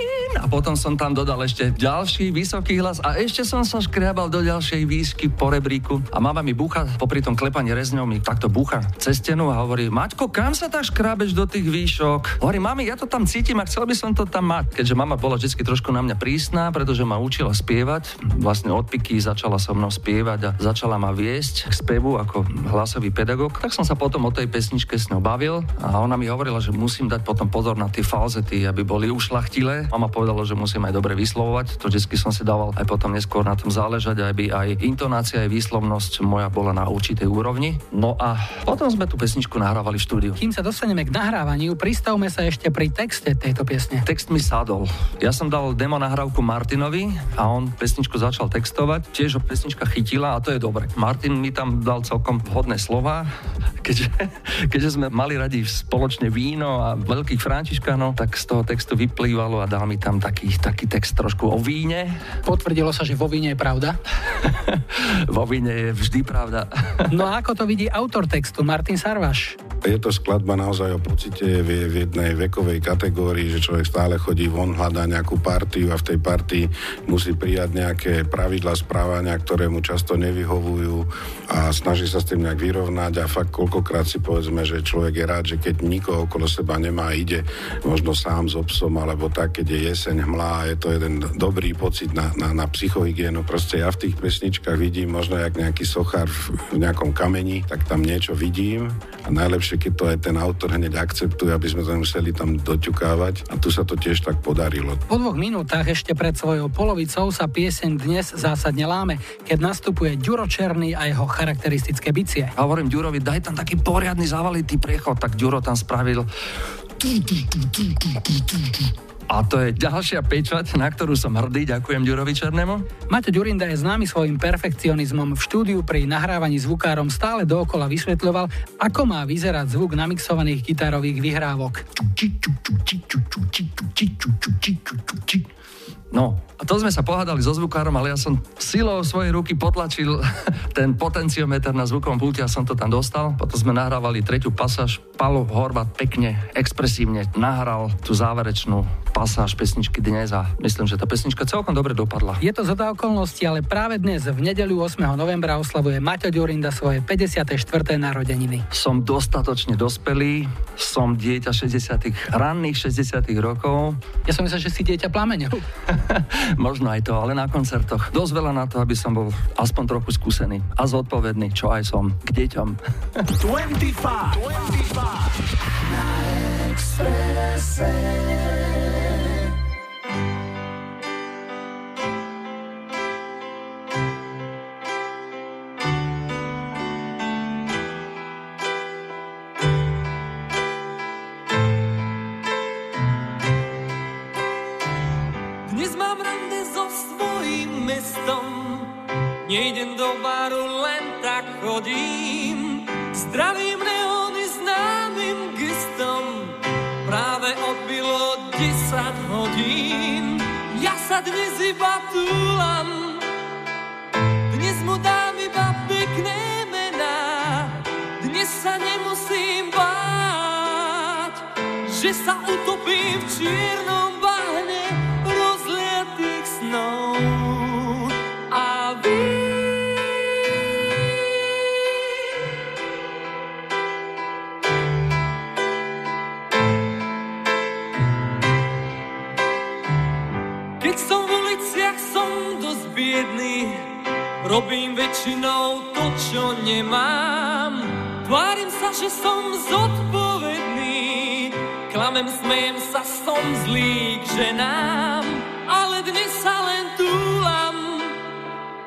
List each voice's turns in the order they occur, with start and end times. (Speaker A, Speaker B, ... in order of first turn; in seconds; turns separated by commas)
Speaker A: 0.3-40.4, Speaker B: 40.4-44.0, Speaker A: 44.0-53.3, Speaker A: 53.8-62.2, Speaker B: 62.5-64.0, Speaker A: 64.5-66.7, Speaker B: 67.1-69.6, Speaker C: 69.8-105.0, Speaker B: 105.1-112.5, Speaker A: 112.6-116.3, Speaker A: 117.0-118.1, Speaker A: 119.3-122.9, Speaker B: 123.1-131.8, Speaker A: 132.1-135.4, Speaker A: 136.1-152.4, Speaker B: 152.4-158.6, Speaker A: 158.7-164.0, Speaker B: 164.3-165.6, Speaker A: 165.9-172.8, Speaker D: 173.4-175.4, Speaker E: 195.7-198.9, Speaker E: 199.4-213.2, Speaker E: 214.5-230.1, Speaker E: 240.8-243.8, Speaker E: 244.4-258.2